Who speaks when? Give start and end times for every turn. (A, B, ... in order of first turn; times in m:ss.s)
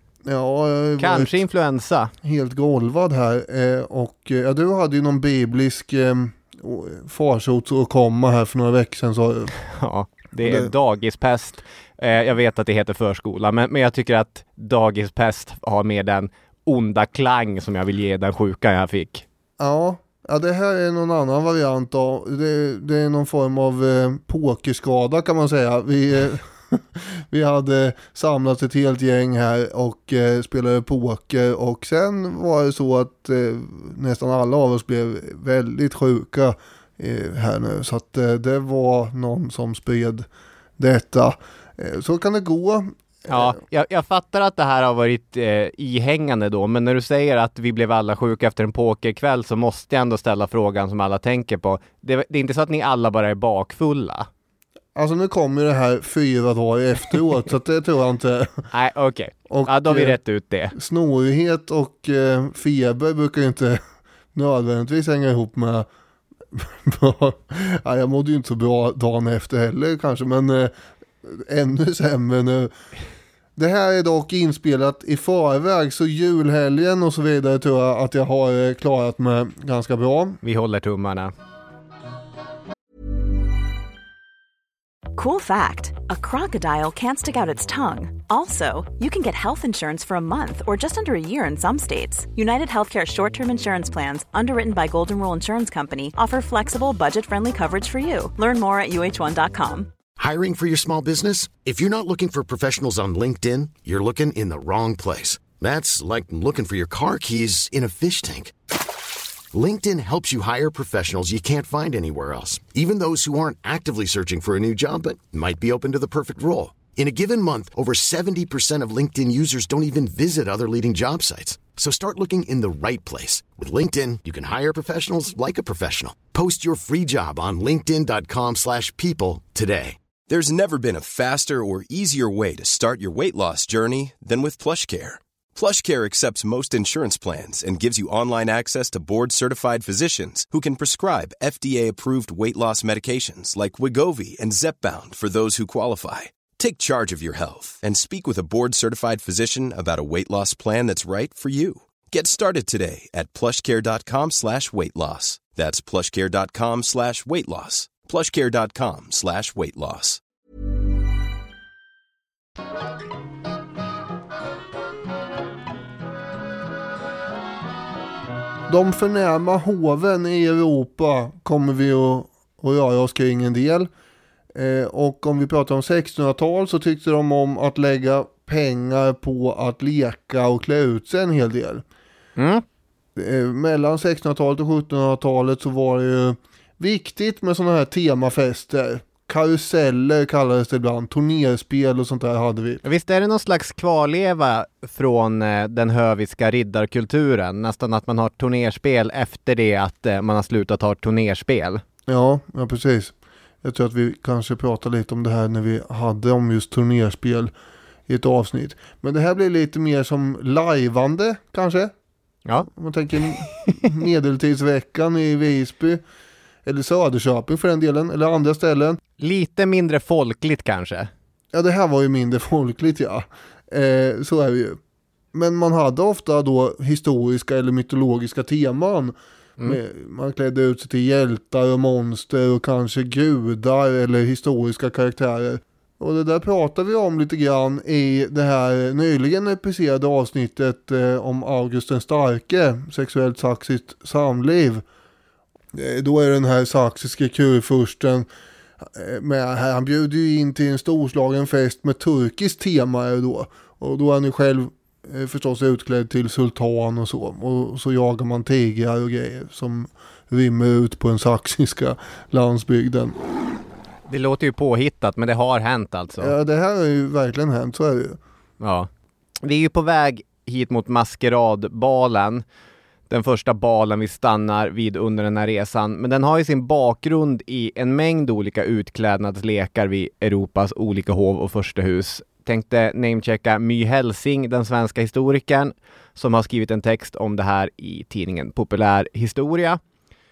0:00.2-0:01.4 A
0:01.0-0:02.1 B
0:02.2-0:09.5 A
0:09.7-0:19.2 B
0:10.4-0:10.7 A
0:19.6-0:40.3 A
0:40.8-0:43.6 A
0:43.3-0:54.3 B
0:55.0-0:58.6 A
0:58.7-1:00.8 B
0:59.5-1:00.2 A
1:00.8-1:03.8 A
1:04.4-1:05.9 A
1:06.5-1:10.7 A
1:11.2-1:12.7 A
1:13.6-1:20.4 A
1:20.4-1:21.3 B
1:25.2-1:39.9 C
1:40.2-1:48.5 D
1:49.5-2:10.0 D
2:10.3-2:40.2 E
2:48.7-2:53.9 A
2:54.5-3:01.8 A
3:02.4-3:02.6 B
3:03.2-3:12.8 A
3:12.8-3:21.8 B
3:22.1-3:27.5 A
3:28.1-3:31.9 A
3:32.7-3:36.0 A
3:33.2-3:33.9 B
3:36.6-3:39.0 A
3:39.2-3:41.1 B
3:41.5-3:44.8 A
3:45.3-4:04.8 A
4:05.7-4:08.3 A
4:08.8-4:23.2 A
4:24.1-4:26.3 B
4:26.2-4:28.2 A
4:28.6-4:28.9 B
4:29.4-4:32.4 B
4:33.1-4:49.8 B